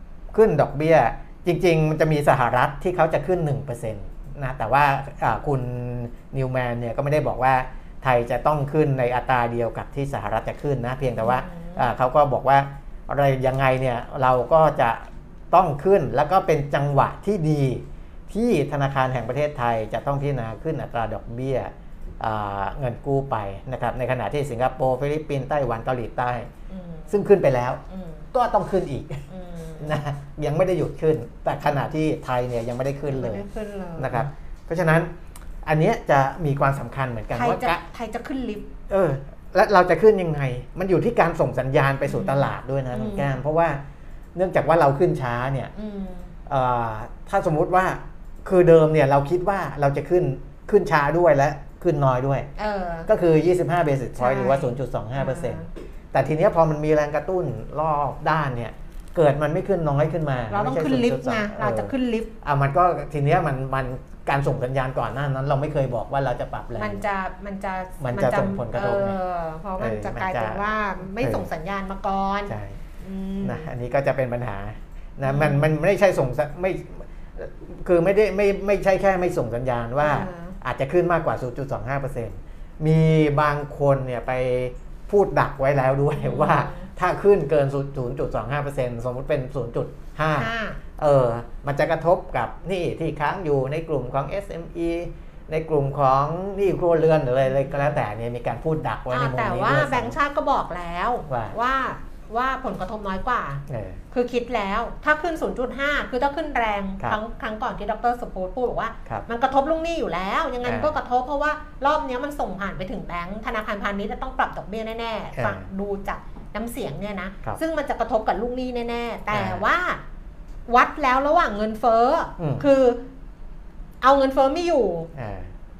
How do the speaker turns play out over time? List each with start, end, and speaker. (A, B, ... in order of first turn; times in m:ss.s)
0:00.3-0:26.5 A
0:11.2-0:11.9 B
0:26.7-0:27.2 B
0:27.1-0:27.8 A
0:27.9-0:28.3 B
0:28.3-0:29.3 A
0:29.3-0:30.0 B
0:29.8-0:33.4 A
0:33.1-0:34.3 B
0:34.0-0:35.1 A
0:35.6-0:37.8 A
0:37.3-0:38.7 B
0:38.9-0:43.8 A
0:42.1-0:43.3 B
0:44.4-0:45.7 A
0:45.8-0:46.3 B
0:46.5-0:52.5 A
0:52.6-0:53.1 B
0:53.1-1:07.0 A
0:54.2-0:55.7 B
1:00.5-1:02.3 B
1:06.8-1:13.7 B
1:08.0-1:09.2 A
1:09.8-1:10.6 A
1:11.2-1:11.5 A
1:12.5-1:12.8 A
1:13.4-1:40.2 A
1:15.2-1:15.7 B
1:20.0-1:20.6 B
1:26.2-1:26.9 B
1:30.3-1:30.8 B
1:37.5-1:38.0 B
1:39.1-2:00.0 B
1:41.3-1:41.6 A
1:43.7-1:44.0 A
1:50.6-1:50.9 A
1:55.4-1:55.7 A
1:59.3-1:59.6 A
2:00.7-2:03.0 B
2:02.4-2:02.6 A
2:04.0-2:05.1 B
2:05.2-2:05.5 A